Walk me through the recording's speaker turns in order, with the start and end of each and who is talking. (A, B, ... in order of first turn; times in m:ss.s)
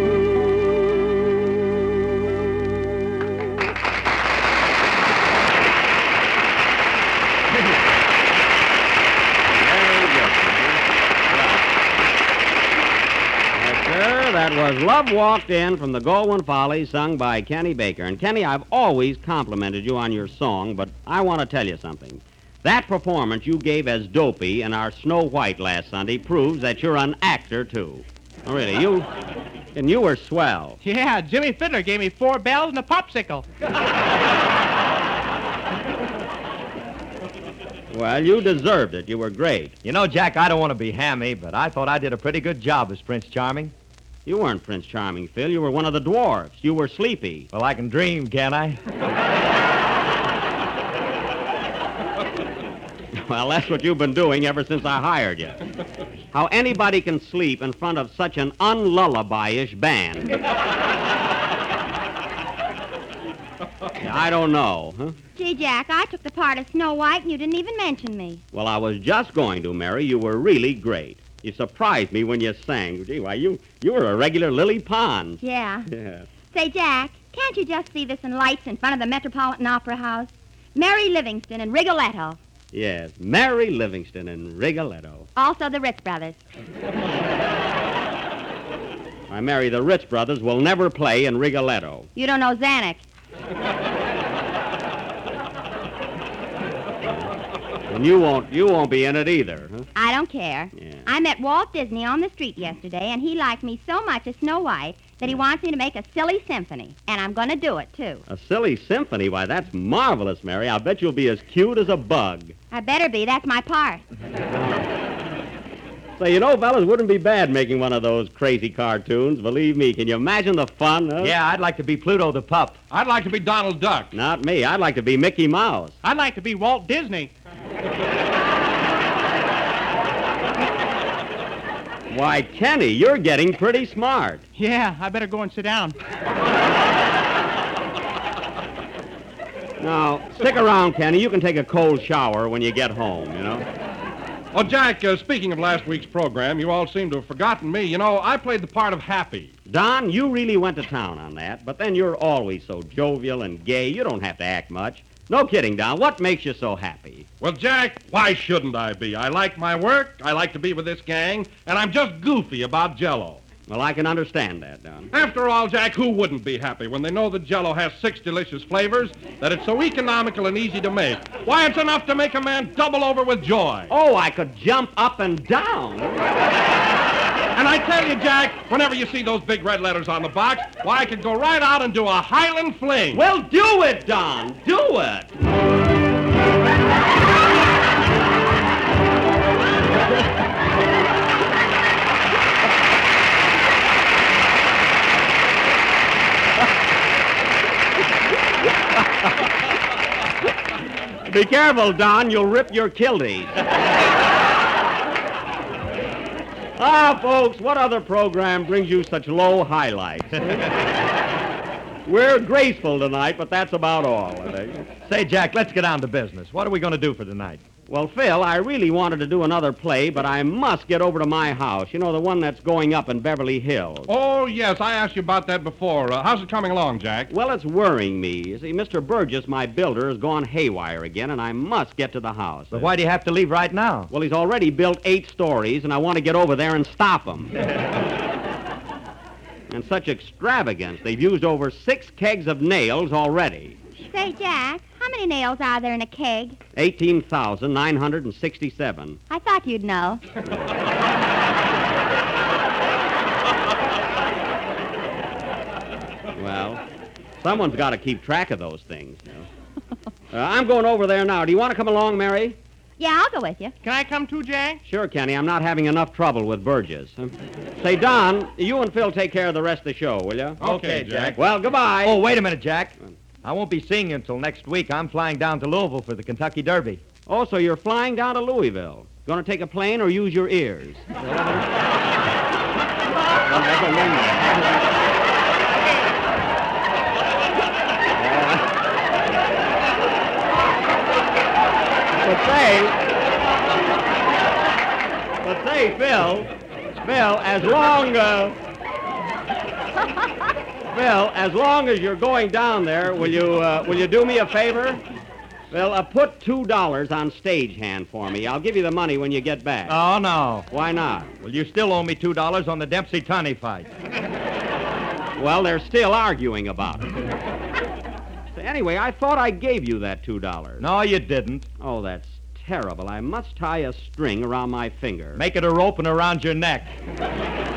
0:09.5-0:11.7 A
0:13.5-0:29.1 A
0:29.7-0:30.8 A
0:30.8-0:33.4 B
0:37.9-0:39.8 A
0:39.8-0:43.7 C
0:44.2-0:47.5 A
0:47.5-0:48.8 C
0:53.1-0:55.6 A
0:56.3-1:00.4 A
1:04.0-1:05.2 A
1:05.4-1:08.4 D
1:08.5-1:16.3 A
1:15.4-1:15.9 D
1:16.5-1:22.4 D
1:22.7-1:25.3 A
1:25.4-1:26.4 D
1:29.3-1:32.1 A
1:32.2-1:33.0 D
1:37.0-1:37.3 A
1:37.9-1:39.8 A
1:40.0-1:48.2 D
1:40.8-1:41.1 A
1:48.3-1:52.5 A
1:52.7-1:54.0 D
1:54.5-1:54.9 A
1:56.2-2:01.3 A
2:01.2-2:02.8 C
2:02.9-2:04.1 E
2:04.1-2:06.0 A
2:06.0-2:07.3 B
2:12.1-2:14.4 A
2:14.6-2:16.0 B
2:19.8-2:23.6 A
2:24.5-2:29.5 E
2:29.7-2:37.3 A
2:37.4-2:43.4 E
2:43.7-2:45.1 A
2:45.1-2:53.9 E
2:53.9-2:56.2 A
2:57.5-3:03.2 E
3:03.1-3:05.3 A
3:21.2-3:23.6 A
3:26.8-3:30.7 A
3:32.0-3:34.9 A
3:35.0-3:37.6 C
3:37.9-3:44.1 A
3:44.1-3:47.3 E
3:47.3-3:52.9 A
3:52.7-3:54.1 C
3:54.1-3:57.6 A
3:59.7-4:03.8 A
4:04.0-4:06.6 D
4:06.7-4:09.2 A
4:09.3-4:10.2 D
4:16.3-4:16.8 A
4:17.4-4:19.5 A
4:20.3-4:22.6 A
4:23.0-4:23.7 D
4:23.8-4:24.8 B
4:24.8-4:30.6 A
4:30.6-4:31.4 E
4:30.6-4:31.4 C
4:31.3-4:32.2 A
4:32.0-4:37.0 C
4:37.2-4:41.6 A
4:43.5-4:44.4 A
4:48.1-4:48.6 A
4:52.2-4:53.0 A
4:55.4-4:58.6 A
5:00.9-5:05.0 A
5:05.7-5:10.0 A
5:09.9-5:10.7 C
5:10.7-5:11.3 A
5:11.4-5:13.9 C
5:15.4-5:17.1 A
5:18.5-5:20.9 A
5:20.8-5:21.7 C
5:21.8-5:25.4 A
5:25.4-5:26.9 C